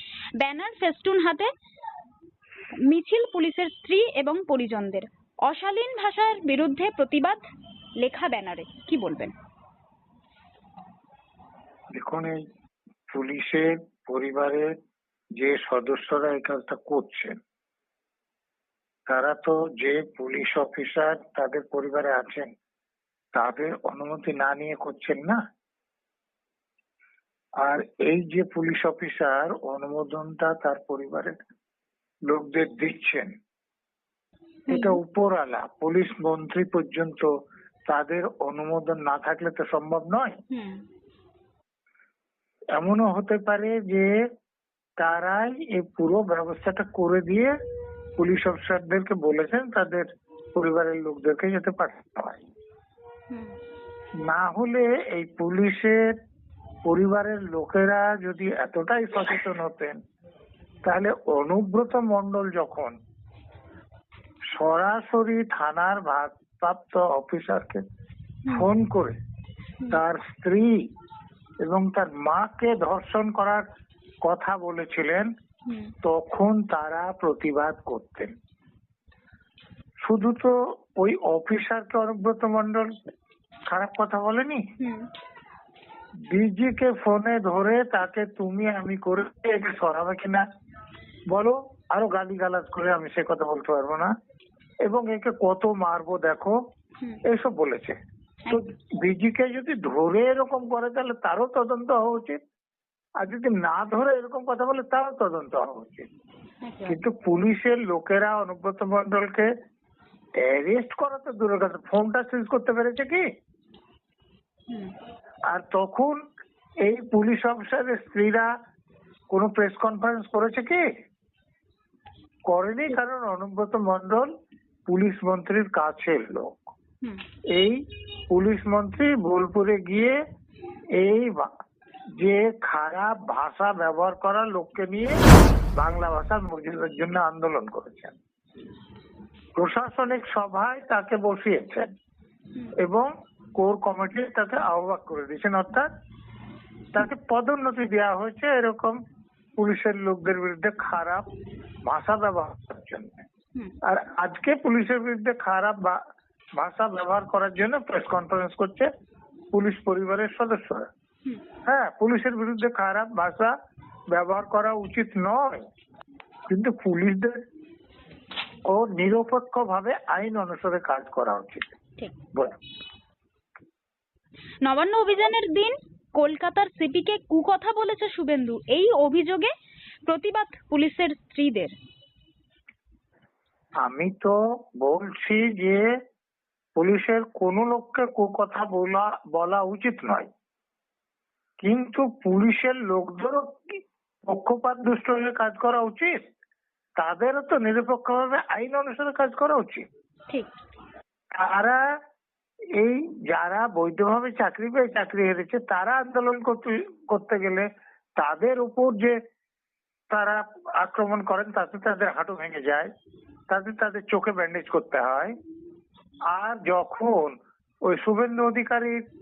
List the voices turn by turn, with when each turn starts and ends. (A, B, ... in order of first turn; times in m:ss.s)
0:00.4-0:01.5 A
0:02.8-0:07.4 A
0:08.0-0:09.4 A
0:12.0-0:12.5 B
0:13.1-0:14.7 B
0:15.4-0:17.4 B
0:19.1-0:22.5 B
0:23.3-0:25.4 B
0:27.6-0:31.4 B
0:32.3-0:33.3 B
0:34.7-0:37.3 B
0:34.7-0:35.0 A
0:37.9-0:40.4 B
0:40.5-0:40.8 A
0:42.8-0:44.2 B
0:45.0-0:47.6 B
0:48.2-0:52.5 B
0:53.3-0:53.6 A
0:54.2-0:56.2 B
0:56.8-1:00.0 B
1:00.8-1:03.0 B
1:04.6-1:07.8 B
1:08.5-1:09.2 B
1:09.9-1:10.8 B
1:11.6-1:13.6 B
1:14.2-1:15.3 B
1:15.7-1:15.9 A
1:16.0-1:18.3 B
1:20.1-1:22.9 B
1:23.7-1:24.6 B
1:24.8-1:25.1 A
1:26.3-1:30.4 B
1:31.3-1:34.1 B
1:34.9-1:36.6 B
1:37.2-1:38.0 B
1:38.5-1:42.4 B
1:43.2-1:46.1 B
1:46.6-1:47.0 A
1:46.9-1:49.5 B
1:50.4-1:53.2 B
1:55.5-1:56.2 B
1:56.8-1:58.5 B
1:59.3-2:00.9 B
2:02.5-2:04.3 B
2:04.9-2:06.7 B
2:07.5-2:10.2 B
2:11.0-2:11.5 B
2:12.2-2:15.2 B
2:15.8-2:18.2 B
2:19.6-2:21.9 B
2:22.8-2:25.9 B
2:26.9-2:29.0 B
2:29.6-2:31.3 B
2:31.8-2:33.3 B
2:33.8-2:36.0 B
2:36.6-2:38.9 B
2:39.5-2:40.9 B
2:41.7-2:43.5 B
2:44.1-2:45.7 B
2:46.5-2:47.4 B
2:48.7-2:51.8 B
2:54.6-2:59.5 A
3:00.1-3:01.8 A
3:03.8-3:05.9 B
3:06.8-3:10.3 B
3:11.6-3:16.2 B
3:17.0-3:19.9 B
3:21.4-3:21.8 B
3:22.8-3:29.2 B
3:30.1-3:32.9 B
3:33.5-3:35.4 B
3:36.3-3:39.0 B